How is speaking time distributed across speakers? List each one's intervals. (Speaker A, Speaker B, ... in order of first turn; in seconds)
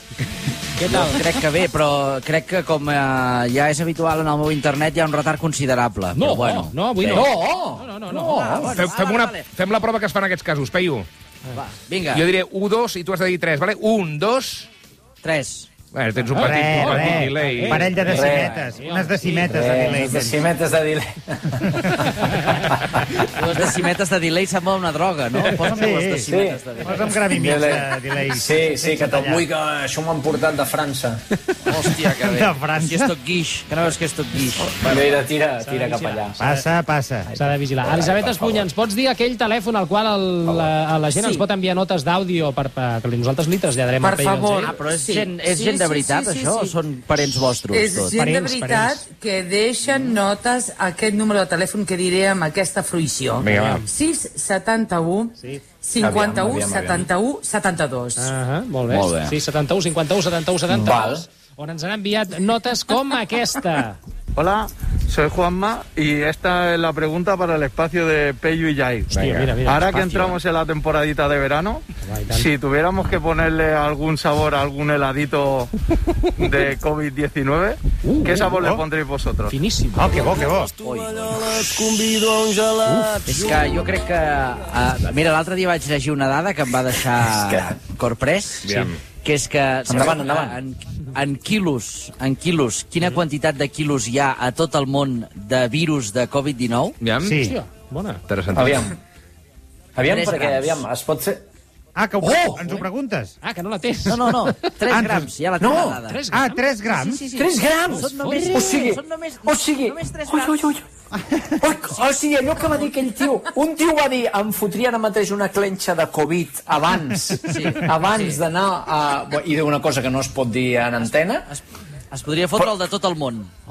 Speaker A: 0.8-1.2, 6.1-8.7, 16.3-19.7, 35.6-36.7, 37.3-44.7, 53.5-53.8, 55.4-55.6, 58.1-64.0, 69.1-70.4, 72.0-72.5, 78.0-78.7, 79.5-80.2, 82.8-83.2, 97.4-98.2, 103.4-104.8, 106.0-106.6, 107.9-108.7
Speaker B: 0.8-7.2, 8.3-9.5, 11.5-12.2, 15.2-15.7, 18.1-18.8, 23.3-27.2, 31.7-35.2, 44.6-48.1, 58.9-59.4, 80.8-81.1, 83.2-97.0, 100.0-100.8, 104.0-106.2, 106.8-110.6, 117.4-118.4, 121.5-123.5
Speaker C: 7.1-8.8, 18.1-18.6, 19.3-23.2, 26.3-26.6, 27.2-31.2, 34.8-36.4, 37.3-38.6, 40.5-40.7, 56.0-57.1, 60.7-61.3, 87.3-87.8, 89.9-90.6, 98.5-99.0, 100.0-101.4, 102.2-102.8, 105.6-106.0, 107.3-110.8, 111.6-121.5
Speaker D: 8.7-11.1, 12.1-14.7, 15.9-17.9, 53.4-53.8, 69.1-69.5, 88.6-89.0, 97.0-97.4, 98.3-98.9
Speaker E: 16.4-20.4, 25.6-29.4, 31.7-33.1, 36.4-37.3, 48.1-49.0, 78.5-78.8, 79.9-80.7, 97.2-97.6, 102.0-103.3, 104.9-105.3, 106.3-107.2
Speaker F: 41.2-41.5, 44.0-46.8, 47.7-58.3
Speaker G: 64.3-75.7, 76.4-79.6, 80.2-83.6